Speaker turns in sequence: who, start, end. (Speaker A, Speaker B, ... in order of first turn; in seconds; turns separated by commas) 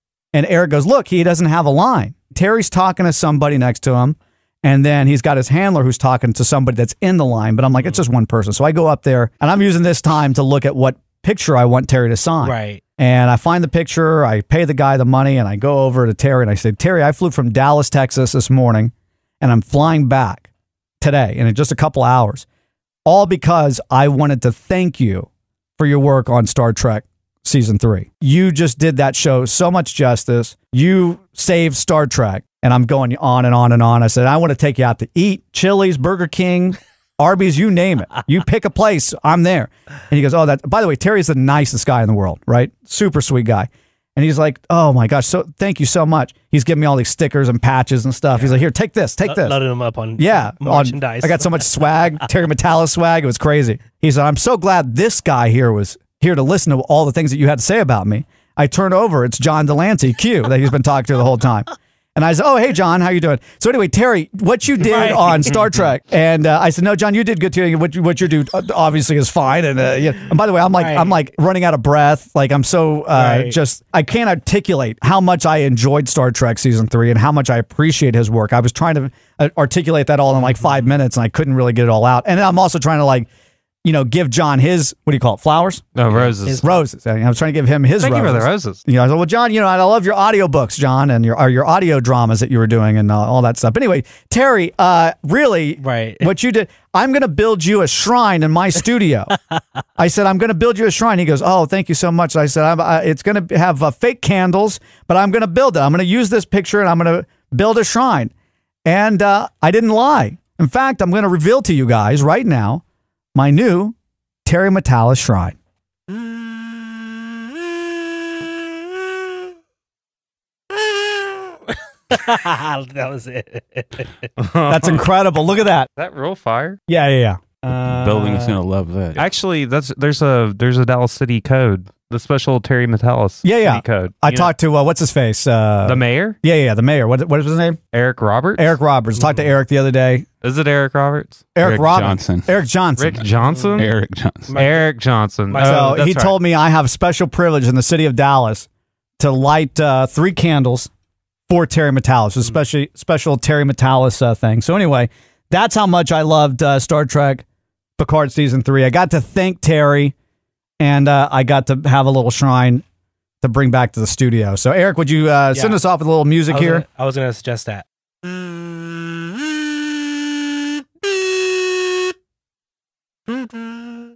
Speaker A: 0.3-20.5, Speaker B: 12.4-12.8, Speaker A: 21.0-22.5, Speaker A: 23.1-49.6, Speaker B: 48.3-48.6, Speaker B: 49.3-52.0, Speaker A: 50.2-83.3, Speaker B: 64.8-65.7, Speaker B: 70.8-71.1, Speaker B: 73.1-73.6, Speaker B: 80.4-80.8, Speaker A: 83.8-85.8, Speaker C: 86.0-86.6, Speaker B: 86.1-86.8, Speaker A: 86.6-99.4, Speaker C: 88.0-88.8, Speaker B: 95.8-96.3, Speaker A: 100.0-108.3, Speaker A: 108.9-112.8, Speaker A: 113.3-115.6, Speaker B: 121.1-121.5, Speaker B: 122.1-124.3, Speaker C: 124.4-125.0, Speaker A: 124.7-125.9, Speaker C: 126.0-126.8, Speaker A: 126.9-127.4, Speaker B: 127.7-128.5, Speaker D: 127.7-129.2, Speaker C: 129.2-134.5, Speaker A: 133.4-137.8, Speaker C: 135.8-136.4, Speaker C: 137.9-138.8, Speaker A: 138.6-140.3, Speaker B: 139.2-139.5, Speaker C: 140.4-141.5, Speaker A: 141.6-143.2, Speaker D: 141.6-142.5, Speaker C: 143.0-143.9, Speaker B: 143.4-143.9, Speaker D: 143.8-144.6, Speaker B: 144.5-146.0, Speaker C: 144.6-146.3, Speaker A: 145.6-148.7, Speaker A: 149.2-150.9, Speaker A: 151.5-157.4, Speaker A: 158.0-160.1, Speaker A: 160.8-162.8, Speaker A: 163.4-166.8, Speaker B: 165.5-165.8, Speaker B: 166.5-167.9